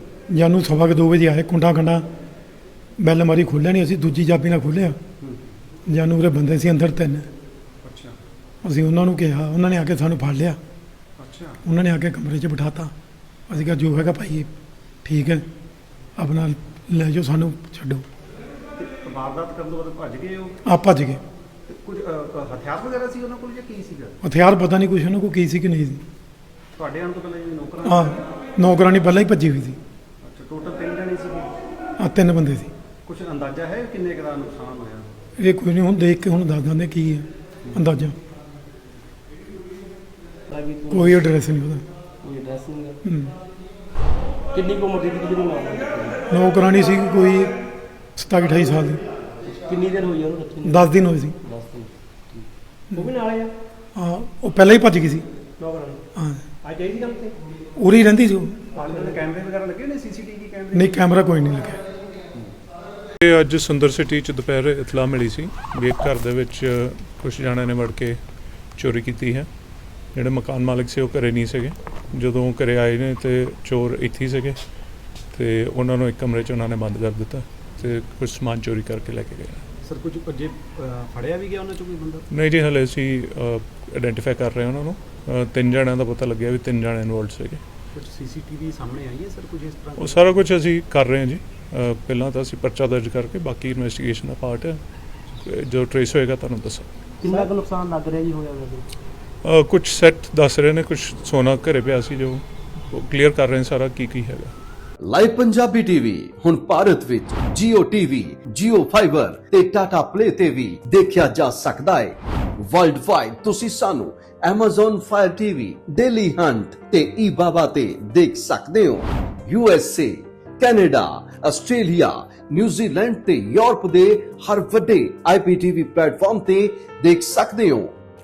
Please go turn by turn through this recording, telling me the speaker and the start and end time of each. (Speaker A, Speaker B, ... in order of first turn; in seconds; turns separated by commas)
Speaker A: 0.3-2.1, Speaker A: 3.0-5.0, Speaker B: 5.2-5.5, Speaker A: 5.9-7.3, Speaker B: 7.8-8.2, Speaker A: 8.6-10.6, Speaker B: 11.2-11.6, Speaker A: 11.7-12.9, Speaker A: 13.5-14.5, Speaker A: 15.1-15.4, Speaker A: 16.2-18.1, Speaker B: 18.8-20.6, Speaker A: 20.6-21.2, Speaker B: 21.7-24.2, Speaker A: 24.2-26.0, Speaker B: 26.8-28.2, Speaker A: 27.9-29.8, Speaker B: 30.2-31.5, Speaker A: 32.0-32.7, Speaker B: 33.1-35.1, Speaker A: 35.4-38.1, Speaker C: 40.5-41.2, Speaker A: 40.9-41.8, Speaker C: 42.2-43.0, Speaker A: 43.0-43.3, Speaker C: 44.5-46.2, Speaker A: 46.3-47.5, Speaker A: 48.2-49.0, Speaker C: 49.5-50.9, Speaker A: 50.6-51.4, Speaker C: 51.4-53.5, Speaker A: 54.0-55.3, Speaker C: 55.6-56.0, Speaker A: 56.1-56.4, Speaker C: 56.6-57.4, Speaker A: 57.8-58.6, Speaker B: 58.8-61.0, Speaker C: 58.8-59.2, Speaker A: 60.7-61.8, Speaker D: 63.2-68.2, Speaker D: 68.8-69.5, Speaker D: 70.1-74.6, Speaker D: 75.3-79.6, Speaker B: 79.8-82.3, Speaker D: 82.3-87.6, Speaker B: 87.9-90.4, Speaker D: 90.0-94.8, Speaker D: 95.4-96.9, Speaker C: 97.2-98.9, Speaker D: 99.4-104.5, Speaker E: 105.0-127.9